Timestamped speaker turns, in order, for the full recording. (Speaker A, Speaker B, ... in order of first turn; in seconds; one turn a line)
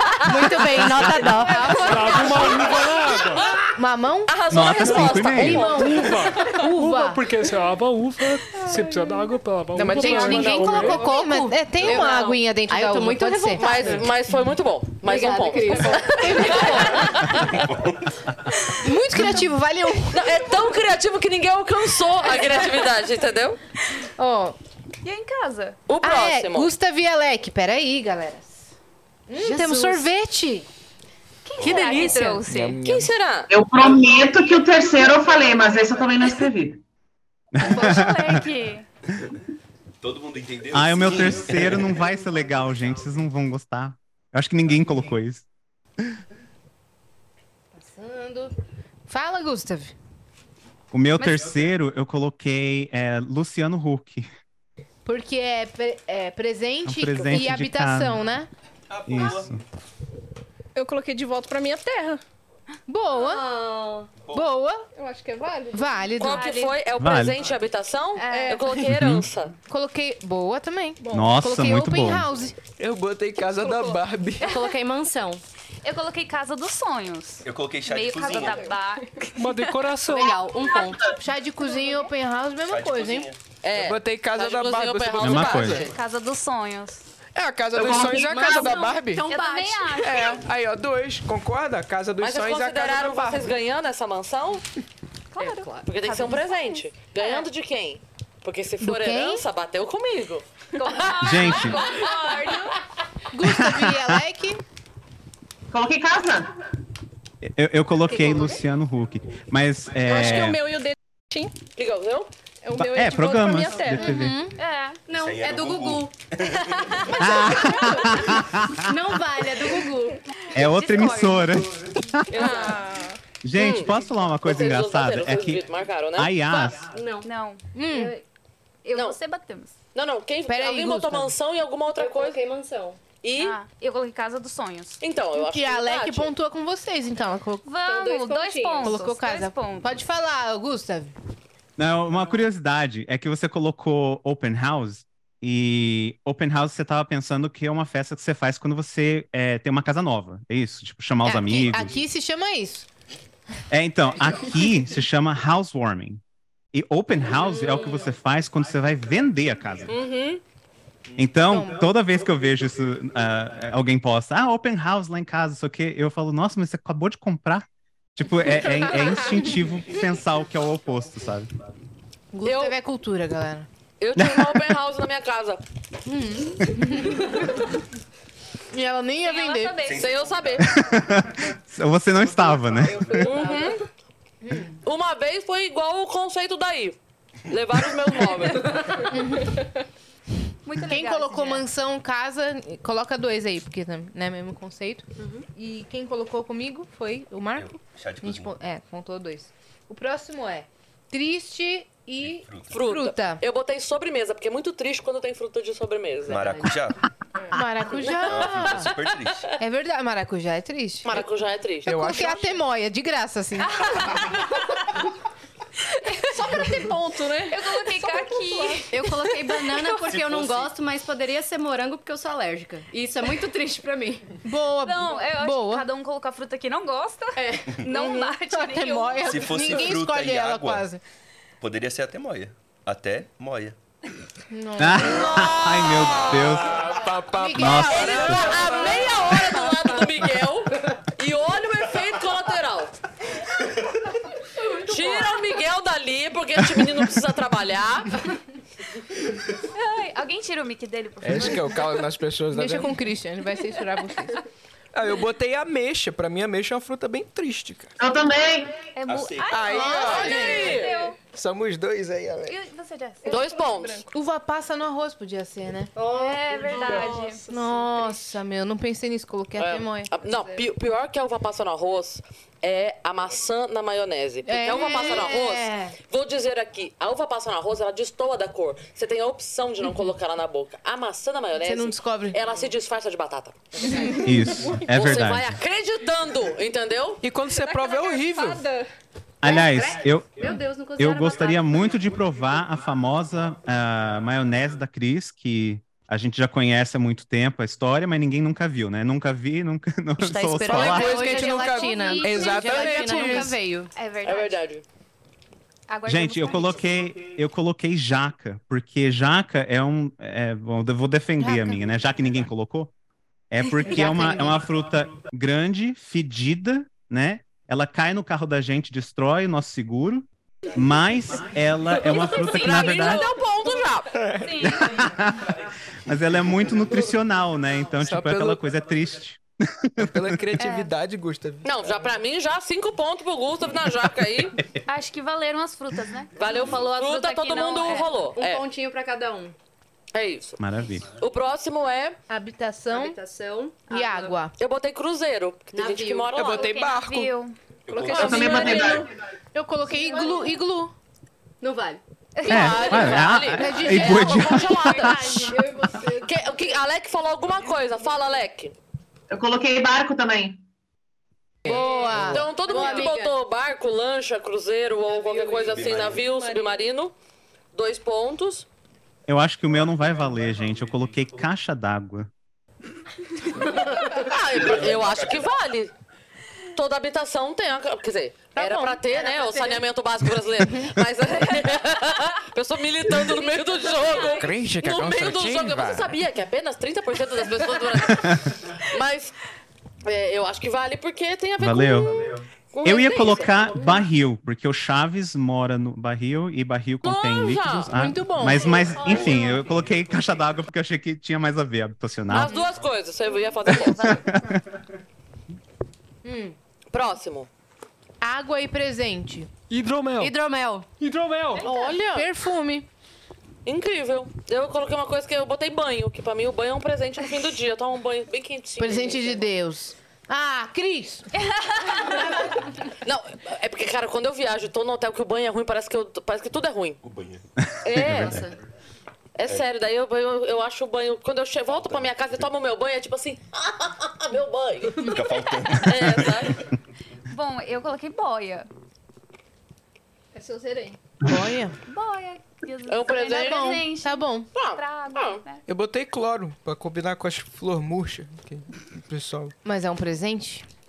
Speaker A: 0.2-2.5
Speaker B: 0.9-1.4
Speaker C: 1.5-2.4
Speaker D: 1.5-3.6
Speaker E: 1.5-2.4
Speaker F: 2.8-3.5
Speaker E: 3.8-4.4
Speaker F: 4.3-6.3
Speaker B: 4.5-5.7
Speaker D: 4.7-11.1
Speaker E: 5.4-7.3
Speaker G: 9.7-11.0
Speaker E: 9.9-14.1
Speaker A: 10.9-14.3
Speaker F: 13.6-17.6
Speaker A: 15.0-17.3
Speaker E: 15.9-17.1
Speaker H: 17.2-18.1
Speaker E: 18.8-20.3
Speaker F: 20.1-23.6
Speaker E: 24.2-24.6
Speaker C: 25.0-25.8
Speaker F: 25.9-26.7
Speaker E: 26.0-28.7
Speaker E: 29.3-30.7
Speaker A: 29.4-30.1
Speaker C: 31.4-32.8
Speaker H: 31.6-32.2
Speaker A: 31.6-32.4
Speaker G: 32.5-33.1
Speaker F: 32.8-33.5
Speaker I: 33.5-36.8
Speaker B: 37.5-38.4
Speaker C: 37.6-38.9
Speaker H: 40.0-42.0
Speaker B: 40.7-45.4
Speaker E: 47.8-48.5
Speaker E: 49.1-49.9
Speaker B: 50.9-54.2
Speaker E: 55.0-58.5
Speaker B: 56.8-58.2
Speaker H: 58.9-59.6
Speaker B: 59.1-59.6
Speaker J: 60.7-62.2
Speaker E: 62.9-63.5
Speaker A: 63.1-64.1
Speaker H: 64.2-64.5
Speaker E: 64.3-64.9
Speaker J: 64.9-66.1
Speaker E: 65.7-66.5
Speaker F: 66.2-69.5
Speaker C: 66.2-66.8
Speaker B: 67.0-67.4
Speaker C: 68.2-68.6
Speaker J: 68.3-68.7
Speaker B: 68.8-69.3
Speaker E: 69.7-72.5
Speaker J: 71.0-71.3
Speaker B: 71.1-72.3
Speaker G: 72.8-74.5
Speaker J: 73.6-74.0
Speaker A: 74.4-75.4
Speaker C: 75.8-79.7
Speaker H: 77.4-78.8
Speaker J: 78.3-78.7
Speaker D: 79.3-80.4
Speaker A: 80.1-81.0
Speaker E: 81.0-83.3
Speaker H: 82.7-83.4
Speaker F: 83.6-85.9
Speaker G: 83.7-85.9
Speaker B: 85.2-85.9
Speaker C: 85.8-87.0
Speaker G: 87.3-89.2
Speaker I: 87.7-88.5
Speaker A: 88.2-90.3
Speaker C: 89.3-90.4
Speaker G: 90.0-93.5
Speaker F: 92.2-94.6
Speaker C: 95.3-97.4
Speaker A: 95.4-95.9
Speaker F: 95.8-102.0
Speaker E: 98.8-99.4
Speaker C: 100.8-102.8
Speaker B: 101.2-101.9
Speaker E: 103.3-104.6
Speaker B: 103.4-104.2
Speaker I: 105.7-106.5
Speaker B: 107.4-110.6
Speaker A: 108.2-108.5
Speaker J: 110.0-111.5
Speaker F: 111.8-112.3
Speaker J: 112.6-114.1
Speaker B: 112.7-114.4
Speaker E: 113.8-114.5
Speaker C: 114.6-115.0
Speaker A: 115.1-116.1
Speaker H: 115.1-117.4
Speaker C: 116.9-117.2
Speaker B: 117.1-119.0
Speaker A: 117.2-118.0
Speaker A: 118.8-120.2
Speaker C: 120.5-121.6
Speaker B: 120.5-122.5
Speaker F: 122.3-122.8
Speaker J: 122.3-123.2
Speaker C: 122.3-122.7
Speaker B: 123.4-126.9
Speaker F: 123.5-123.9
Speaker F: 124.4-126.3
Speaker C: 126.5-127.6
Speaker A: 126.9-127.3
Speaker E: 127.7-128.1
Speaker A: 127.9-128.2
Speaker C: 128.8-129.7
Speaker F: 129.9-132.4
Speaker E: 130.5-131.3
Speaker A: 131.9-133.0
Speaker F: 133.2-133.6
Speaker C: 133.3-135.0
Speaker F: 135.0-136.3
Speaker E: 135.4-137.7
Speaker C: 137.6-139.9
Speaker A: 137.8-138.9
Speaker E: 138.8-141.1
Speaker B: 141.8-152.0
Speaker E: 151.2-152.9
Speaker B: 153.7-156.2
Speaker B: 156.7-159.9
Speaker A: 157.5-158.1
Speaker F: 159.9-160.4
Speaker B: 161.2-171.5
Speaker E: 161.4-161.9
Speaker E: 172.3-173.7
Speaker F: 172.4-172.8
Speaker F: 174.0-175.6
Speaker B: 174.2-174.6
Speaker E: 176.1-177.5
Speaker E: 178.7-179.8
Speaker C: 179.2-180.1
Speaker H: 179.8-180.7
Speaker F: 180.0-180.7
Speaker B: 180.7-183.3
Speaker A: 182.7-183.8
Speaker F: 183.1-183.8
Speaker E: 184.4-184.8
Speaker F: 184.8-187.0
Speaker F: 187.5-188.9
Speaker E: 189.1-189.6
Speaker C: 190.6-191.7
Speaker E: 190.8-203.4
Speaker A: 195.2-195.4
Speaker H: 197.5-198.5
Speaker H: 202.2-202.8
Speaker F: 202.7-206.5
Speaker H: 206.2-207.0
Speaker A: 206.5-206.8
Speaker E: 207.5-208.9
Speaker F: 208.0-209.1
Speaker H: 208.1-209.5
Speaker E: 209.6-211.2
Speaker F: 211.0-212.0
Speaker G: 211.8-212.6
Speaker E: 211.8-213.8
Speaker C: 213.7-214.4
Speaker C: 215.9-216.2
Speaker J: 216.2-218.9
Speaker C: 217.5-218.9
Speaker A: 218.9-224.3
Speaker H: 220.0-220.7
Speaker E: 224.4-225.8
Speaker C: 224.8-229.6
Speaker A: 227.3-227.8
Speaker E: 227.9-231.0
Speaker H: 229.2-230.9
Speaker H: 231.6-233.8
Speaker E: 234.5-235.5
Speaker B: 234.8-236.9
Speaker F: 235.1-236.3
Speaker G: 236.4-239.3
Speaker E: 237.2-238.8
Speaker B: 237.5-238.5
Speaker F: 237.9-243.0
Speaker F: 244.8-248.2
Speaker C: 249.7-252.0
Speaker G: 251.2-252.9
Speaker E: 252.5-254.4
Speaker G: 254.9-257.9
Speaker I: 258.0-258.7
Speaker C: 258.9-261.1
Speaker H: 259.0-260.1
Speaker G: 259.5-262.6
Speaker E: 259.8-260.9
Speaker F: 260.2-260.8
Speaker C: 262.4-263.4
Speaker J: 263.2-264.1
Speaker F: 263.2-264.0
Speaker E: 264.1-265.9
Speaker A: 265.9-266.8
Speaker C: 266.1-267.4
Speaker J: 266.3-268.3
Speaker E: 267.5-270.1
Speaker F: 269.6-284.2
Speaker A: 270.2-270.6
Speaker E: 274.4-275.9
Speaker E: 281.6-282.4
Speaker E: 283.9-284.3
Speaker B: 284.2-285.6
Speaker F: 284.8-287.2
Speaker G: 287.2-288.7
Speaker J: 287.5-288.9
Speaker B: 289.4-301.3
Speaker A: 289.4-292.1
Speaker A: 300.2-303.9
Speaker G: 300.6-303.5
Speaker C: 300.6-304.6
Speaker E: 302.2-303.7
Speaker F: 304.2-304.8
Speaker C: 305.9-306.9
Speaker B: 306.1-312.9
Speaker E: 311.4-311.8
Speaker B: 313.5-323.3
Speaker E: 313.8-314.6
Speaker F: 322.0-324.2
Speaker C: 322.1-323.2
Speaker G: 324.1-324.6
Speaker C: 324.3-325.0
Speaker B: 324.6-325.5
Speaker B: 326.1-330.3
Speaker G: 328.0-328.6
Speaker G: 330.0-331.8
Speaker C: 330.6-330.9
Speaker F: 331.6-334.6
Speaker C: 334.9-338.1
Speaker F: 336.4-338.6
Speaker A: 338.3-339.5
Speaker F: 340.1-342.2
Speaker B: 340.6-341.1
Speaker E: 342.3-343.2
Speaker A: 342.9-344.4
Speaker E: 343.9-344.5
Speaker F: 344.6-346.7
Speaker A: 345.7-346.3
Speaker G: 346.3-347.3
Speaker C: 346.4-347.5
Speaker H: 347.9-349.0
Speaker J: 347.9-349.1
Speaker I: 348.1-349.1
Speaker G: 348.2-348.6
Speaker E: 349.5-350.9
Speaker A: 349.9-350.5
Speaker A: 351.6-352.0
Speaker C: 352.4-353.3
Speaker B: 352.4-355.4
Speaker F: 352.5-355.5
Speaker E: 353.4-354.7
Speaker C: 353.9-355.6
Speaker A: 355.4-356.3
Speaker J: 355.6-356.2
Speaker F: 356.2-358.7
Speaker I: 359.3-360.6
Speaker A: 361.6-363.3
Speaker E: 361.6-362.5
Speaker F: 362.3-367.1
Speaker J: 362.7-363.0
Speaker A: 365.1-365.8
Speaker H: 365.6-366.3
Speaker J: 366.3-366.8
Speaker F: 367.7-368.6
Speaker B: 369.3-372.3
Speaker H: 373.6-375.5
Speaker F: 373.9-375.9
Speaker F: 376.7-389.3
Speaker E: 378.5-379.8
Speaker E: 380.6-380.9
Speaker C: 383.1-384.6
Speaker G: 384.4-386.1
Speaker B: 388.1-388.4
Speaker F: 390.0-393.9
Speaker B: 391.6-402.6
Speaker F: 397.0-397.9
Speaker E: 397.9-399.1
Speaker H: 398.9-399.6
Speaker F: 402.3-404.2
Speaker C: 403.6-404.2
Speaker B: 403.9-404.6
Speaker E: 406.2-406.6
Speaker F: 406.9-407.5
Speaker E: 408.2-409.5
Speaker D: 409.7-410.4
Speaker A: 410.2-410.9
Speaker D: 411.0-411.7
Speaker C: 411.6-411.9
Speaker F: 411.6-412.3
Speaker E: 412.1-412.9
Speaker F: 413.6-419.5
Speaker E: 418.8-421.3
Speaker C: 421.5-422.1
Speaker E: 421.9-422.5
Speaker F: 423.0-427.0
Speaker H: 427.0-427.4
Speaker F: 427.8-428.4
Speaker B: 427.8-428.4
Speaker A: 428.0-428.6
Speaker F: 429.4-436.6
Speaker H: 431.7-432.4
Speaker H: 434.9-436.2
Speaker C: 437.3-438.7
Speaker J: 440.3-441.0
Speaker E: 441.2-441.8
Speaker C: 441.9-445.6
Speaker F: 442.9-443.8
Speaker E: 443.1-444.5
Speaker F: 444.5-445.4
Speaker G: 445.7-449.5
Speaker E: 449.6-450.6